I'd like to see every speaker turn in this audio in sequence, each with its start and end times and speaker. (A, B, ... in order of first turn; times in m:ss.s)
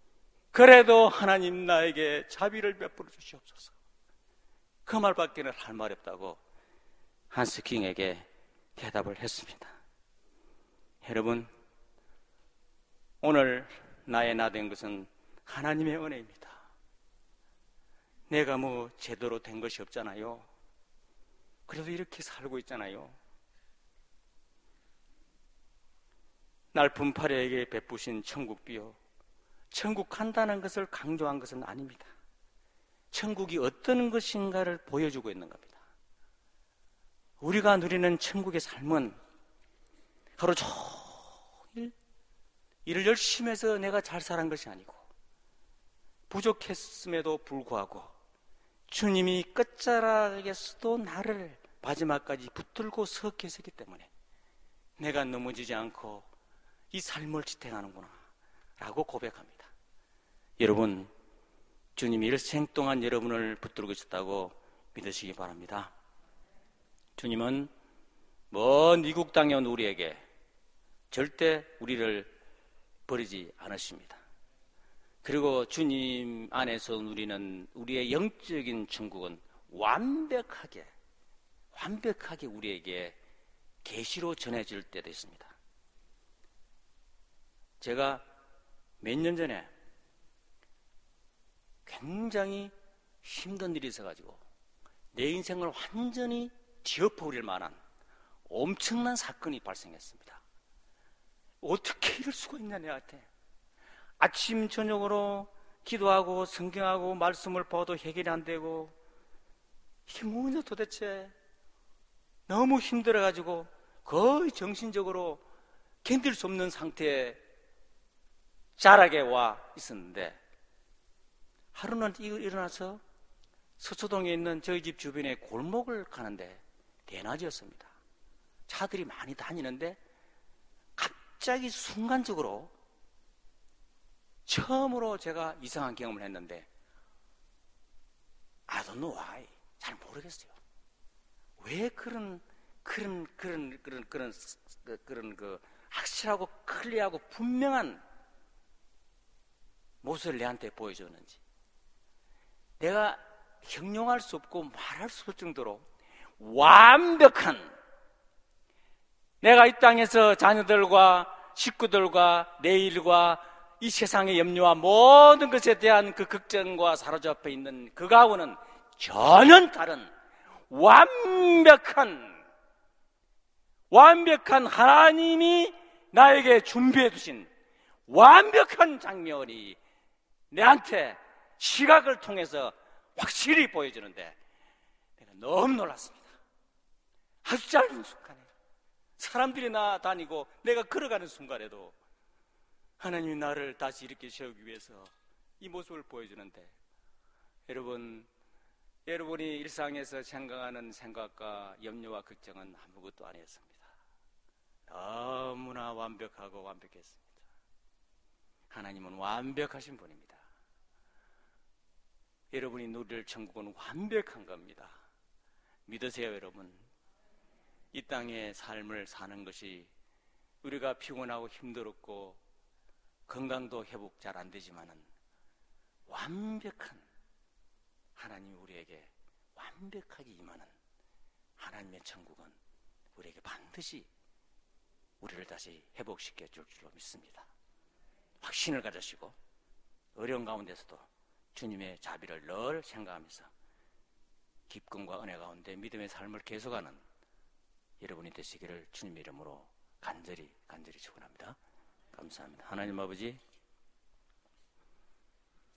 0:00.5-0:03.7 A
0:04.8-0:06.4 A
0:07.3-0:09.7 A
0:11.0-0:11.5 A
0:13.2-0:16.6 A
0:18.3-0:20.5 A
0:21.7-0:23.2 A
0:26.7-0:29.0 A
0:29.7-0:32.1 A
0:33.1-0:35.8 A
0:37.4-0:39.2 A
0:40.4-0:41.9 A
0:42.8-0:45.0 A
0:46.3-0:48.1 A
0:48.9-0:54.1 A
0:55.0-0:56.3 A
0:56.9-0:58.2 A
0:58.8-0:59.7 A
1:00.6-1:01.1 A
1:02.0-1:05.9 A
1:07.2-1:07.7 A
1:08.5-1:10.2 A
1:11.1-1:12.3 A
1:13.1-1:14.2 A
1:15.2-1:20.9 A
1:21.7-1:23.2 A
1:23.8-1:25.5 A
1:27.8-1:28.2 A
1:29.0-1:29.7 A
1:31.8-1:32.7 A
1:33.2-1:34.4 A
1:35.1-1:37.8 A
1:38.5-1:40.4 A
1:41.6-1:43.3 A
1:44.2-1:48.9 A
1:50.1-1:51.3 A
1:52.5-1:55.4 A
1:56.0-1:57.4 A
1:58.8-2:00.4 A
2:01.7-2:03.0 A
2:03.8-2:07.9 A
2:08.7-2:10.0 A
2:11.0-2:12.7 A
2:14.4-2:16.7 A
2:18.7-2:20.5 A
2:21.6-2:28.0 A
2:30.0-2:31.4 A
2:32.8-2:35.8 A
2:36.4-2:37.7 A
2:39.4-2:50.1 A
2:50.7-2:52.4 A
2:53.9-2:57.5 A
2:58.1-2:59.8 A
3:00.5-3:04.4 A
3:05.2-3:06.3 A
3:07.4-3:08.5 A
3:09.2-3:11.9 A
3:13.0-3:16.7 A
3:17.7-3:18.3 A
3:19.1-3:23.9 A
3:24.9-3:27.4 A
3:28.7-3:30.4 A
3:32.5-3:35.0 A
3:35.8-3:36.8 A
3:37.9-3:39.9 A
3:40.6-3:42.4 A
3:43.3-3:45.1 A
3:46.1-3:47.0 A
3:48.2-3:50.7 A
3:51.6-3:52.6 A
3:53.1-3:54.1 A
3:55.2-3:57.5 A
3:58.4-3:59.4 A
4:00.2-4:03.5 A
4:04.7-4:07.0 A
4:08.0-4:11.6 A
4:12.1-4:13.4 A